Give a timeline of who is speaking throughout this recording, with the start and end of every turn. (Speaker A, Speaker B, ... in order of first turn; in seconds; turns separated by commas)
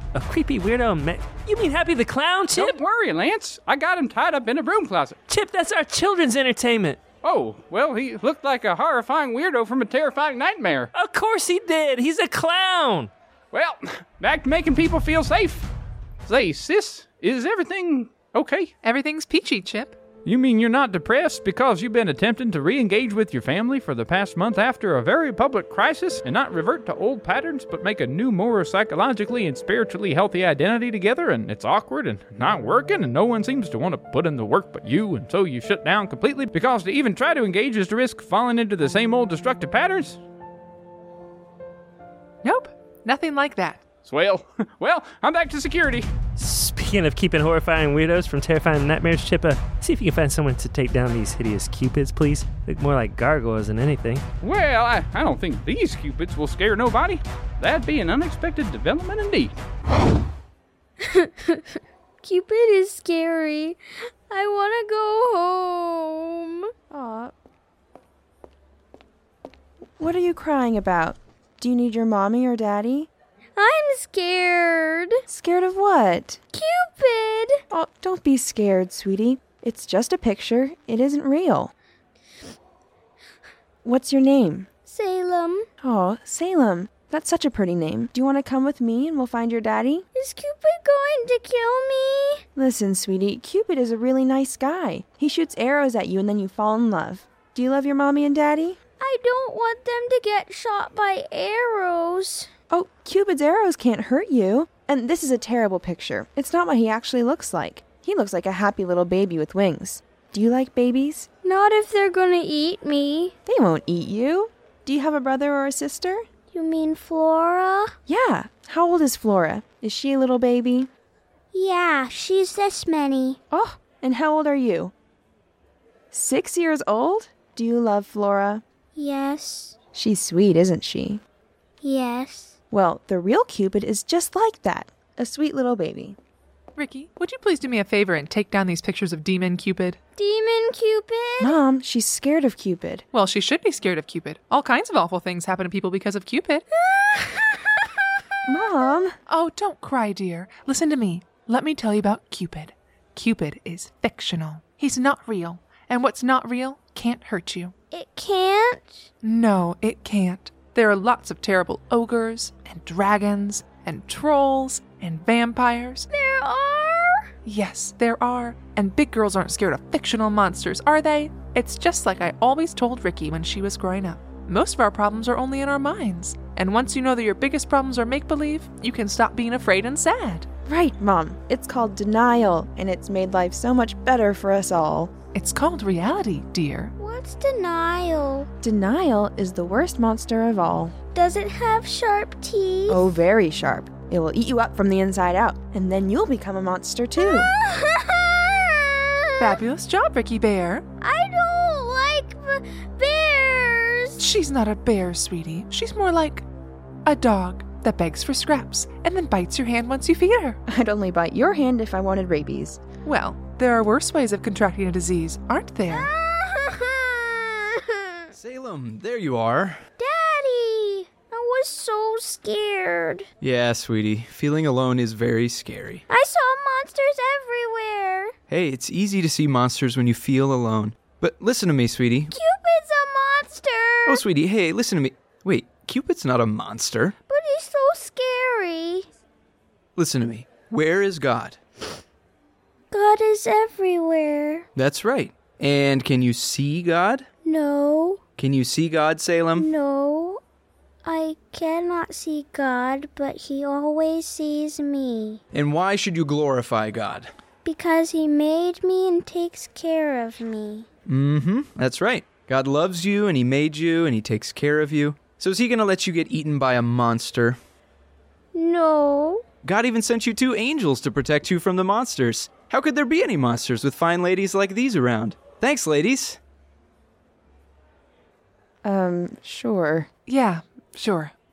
Speaker A: 0.1-2.8, Speaker B: 2.5-5.2, Speaker A: 5.3-7.0, Speaker B: 7.2-10.9, Speaker A: 10.9-13.1, Speaker B: 13.5-15.7, Speaker B: 16.2-18.7, Speaker C: 18.8-20.0, Speaker B: 20.2-40.2, Speaker C: 42.4-43.8, Speaker B: 44.0-46.1, Speaker A: 46.4-54.2, Speaker B: 54.4-59.5, Speaker D: 61.0-66.7, Speaker E: 66.9-67.3, Speaker E: 70.0-73.1, Speaker D: 73.5-75.2, Speaker E: 75.3-76.4, Speaker D: 76.5-77.6, Speaker E: 77.7-81.7, Speaker E: 83.8-84.7, Speaker D: 84.8-85.7, Speaker E: 85.8-90.0, Speaker D: 90.1-92.4, Speaker E: 92.5-98.8, Speaker D: 99.0-102.5, Speaker E: 102.7-111.3, Speaker D: 111.4-113.3, Speaker E: 113.5-116.2, Speaker D: 116.5-117.9, Speaker E: 118.1-120.9, Speaker D: 121.5-123.4, Speaker E: 123.5-124.9, Speaker E: 126.1-128.6, Speaker D: 128.9-129.8, Speaker E: 129.9-131.2, Speaker D: 131.8-132.6, Speaker E: 132.7-136.2, Speaker C: 136.8-140.0, Speaker D: 140.2-141.6, Speaker E: 141.4-143.0, Speaker C: 143.1-146.7, Speaker D: 146.9-147.9, Speaker E: 148.5-149.1, Speaker C: 149.3-157.7, Speaker D: 157.9-159.1, Speaker C: 159.2-166.1, Speaker D: 166.1-167.3, Speaker C: 167.4-180.5, Speaker E: 180.7-185.1, Speaker C: 185.3-186.9, Speaker D: 187.0-188.5, Speaker E: 188.6-191.0, Speaker D: 191.1-193.0, Speaker E: 192.9-197.5, Speaker D: 197.2-199.6, Speaker C: 199.4-200.8, Speaker D: 201.0-204.2, Speaker C: 204.2-206.4, Speaker C: 207.1-210.6, Speaker E: 210.7-212.8, Speaker C: 213.0-216.1, Speaker D: 215.9-218.3, Speaker F: 218.3-219.8, Speaker D: 220.0-223.3, Speaker F: 223.4-226.0, Speaker D: 226.1-228.3, Speaker F: 228.5-232.3, Speaker D: 232.3-234.2, Speaker F: 234.1-237.2, Speaker D: 237.3-239.1, Speaker F: 239.9-241.6, Speaker D: 242.9-244.7, Speaker F: 244.7-247.3, Speaker D: 247.4-248.2, Speaker F: 248.4-249.7, Speaker D: 249.6-250.4, Speaker D: 251.0-255.4, Speaker F: 255.5-257.3, Speaker D: 257.6-260.9, Speaker F: 261.1-267.6, Speaker D: 268.5-269.4, Speaker F: 269.6-276.4, Speaker E: 278.8-280.1, Speaker C: 280.3-281.3